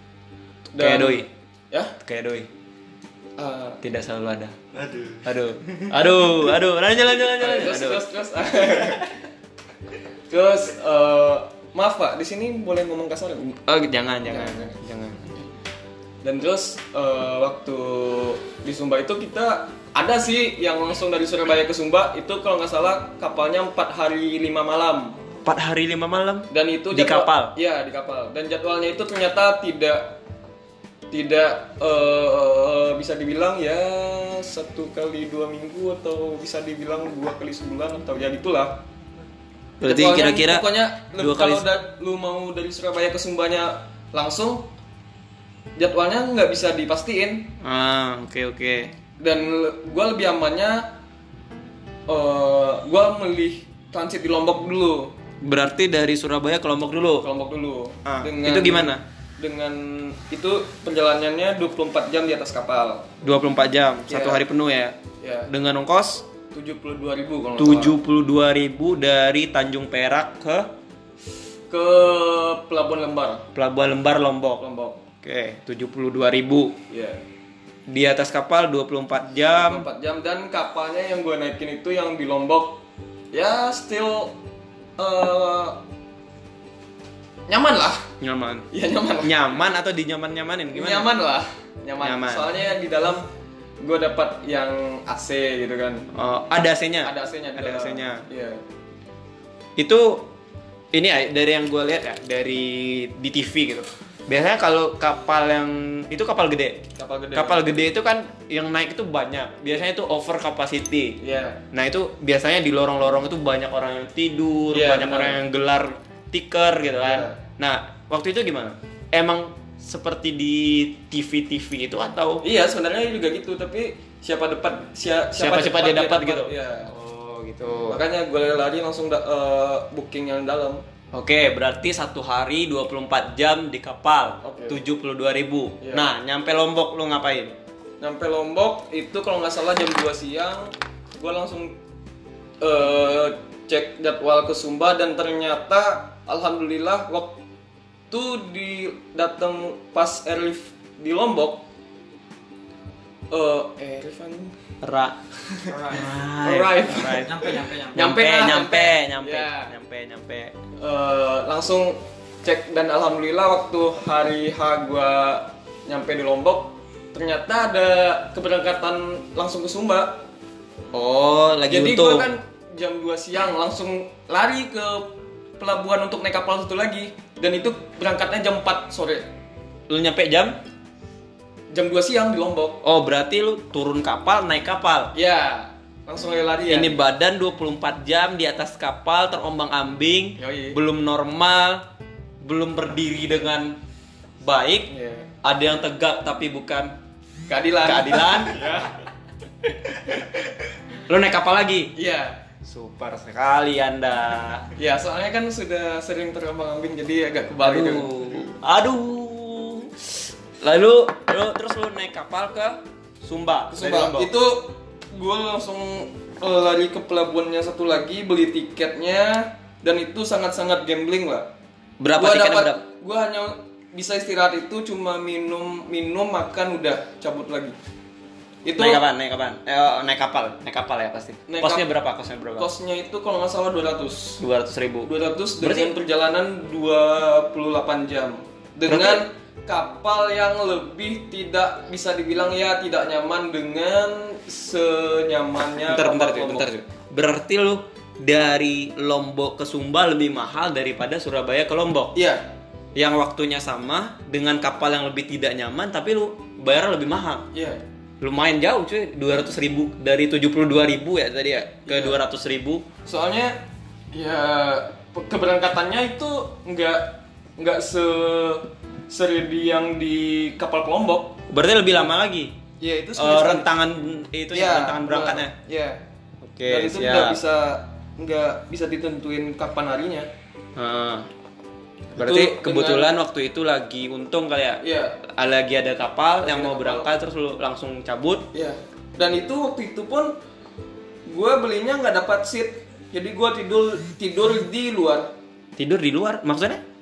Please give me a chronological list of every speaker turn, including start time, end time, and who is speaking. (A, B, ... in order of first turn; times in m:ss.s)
0:00.7-0:01.9 A
0:00.8-0:01.3 B
0:02.0-0:02.5 B
0:03.4-0:03.8 A
0:03.8-0:04.5 B
0:04.8-0:05.9 C
0:05.2-0:08.0 B
0:07.4-0:09.1 A
0:10.3-0:13.6 A
0:13.6-0:15.3 B
0:14.3-0:14.8 A
0:16.2-0:25.2 A
0:25.4-0:27.5 B
0:26.5-0:30.2 A
0:31.1-0:38.8 A
0:39.8-0:41.7 B
0:39.8-0:44.7 A
0:45.8-0:47.5 A
0:47.6-0:48.9 B
0:49.2-0:50.9 A
0:52.1-0:55.1 A
0:55.4-0:57.3 B
0:57.2-1:03.1 A
0:58.0-0:59.0 B
1:03.2-1:05.0 B
1:04.1-1:04.4 A
1:05.2-1:05.5 A
1:05.5-1:06.2 B
1:06.5-1:08.0 A
1:07.6-1:10.7 B
1:11.7-1:13.4 A
1:13.5-1:14.6 B
1:14.6-1:15.0 A
1:15.2-1:16.8 B
1:16.9-1:17.2 A
1:17.9-1:19.8 B
1:19.6-1:24.4 A
1:25.0-1:25.8 A
1:27.5-1:28.0 A
1:28.2-1:28.7 B
1:28.7-1:29.4 A
1:29.2-1:31.1 B
1:30.7-1:33.2 A
1:32.0-1:32.4 B
1:33.8-1:36.1 A
1:36.1-1:38.2 B
1:37.0-1:38.6 A
1:39.8-1:40.3 B
1:40.9-1:46.8 B
1:47.0-1:47.8 A
1:47.3-1:51.2 B
1:51.2-1:51.6 A
1:51.7-2:02.4 B
1:54.7-1:55.4 A
1:57.0-1:57.4 A
2:02.4-2:06.9 A
2:05.4-2:08.0 B
2:07.9-2:10.8 A
2:11.1-2:17.5 B
2:14.4-2:14.8 A
2:15.8-2:16.1 A
2:18.0-2:21.8 A
2:22.6-2:27.4 A
2:28.1-2:31.6 A
2:33.3-2:34.6 A
2:34.8-2:35.2 B
2:35.4-2:39.7 A
2:35.7-2:36.1 C
2:35.8-2:40.5 B
2:37.0-2:38.0 C
2:40.8-2:50.2 A
2:50.9-2:52.3 B
2:51.7-2:59.3 A
2:59.9-3:00.6 B
3:01.7-3:02.8 A
3:02.8-3:05.1 B
3:05.1-3:07.0 A
3:06.6-3:11.8 B
3:10.4-3:10.8 A
3:12.4-3:13.8 B
3:14.4-3:14.9 B
3:14.9-3:15.3 A
3:15.4-3:16.9 B
3:17.5-3:19.0 A
3:17.8-3:18.9 B
3:21.1-3:21.9 B
3:21.9-3:22.4 A
3:22.6-3:24.7 B
3:24.8-3:28.5 A
3:27.6-3:34.3 B
3:33.7-3:41.5 A
3:42.0-3:42.8 B
3:42.1-3:47.8 A
3:48.6-3:49.0 A
3:48.7-3:52.7 B
3:51.5-3:51.8 A
3:52.6-3:54.4 A
3:54.4-3:55.9 B
3:55.0-4:06.6 A
3:58.9-3:59.2 B
4:05.9-4:12.2 B
4:12.1-4:12.5 A
4:12.9-4:17.4 B
4:17.5-4:17.8 A
4:18.2-4:22.8 B
4:21.9-4:22.2 A
4:23.0-4:23.6 A
4:24.1-4:31.4 A
4:31.5-4:32.6 B
4:32.8-4:33.7 A
4:33.2-4:35.5 B
4:34.5-4:36.0 A
4:36.4-4:37.4 B
4:36.7-4:40.3 A
4:40.8-4:41.3 B
4:42.1-4:43.1 A
4:42.2-4:48.5 B
4:44.8-4:45.2 A
4:46.4-4:47.1 A
4:48.5-4:50.4 A
4:51.2-4:55.3 A
4:55.8-4:56.8 B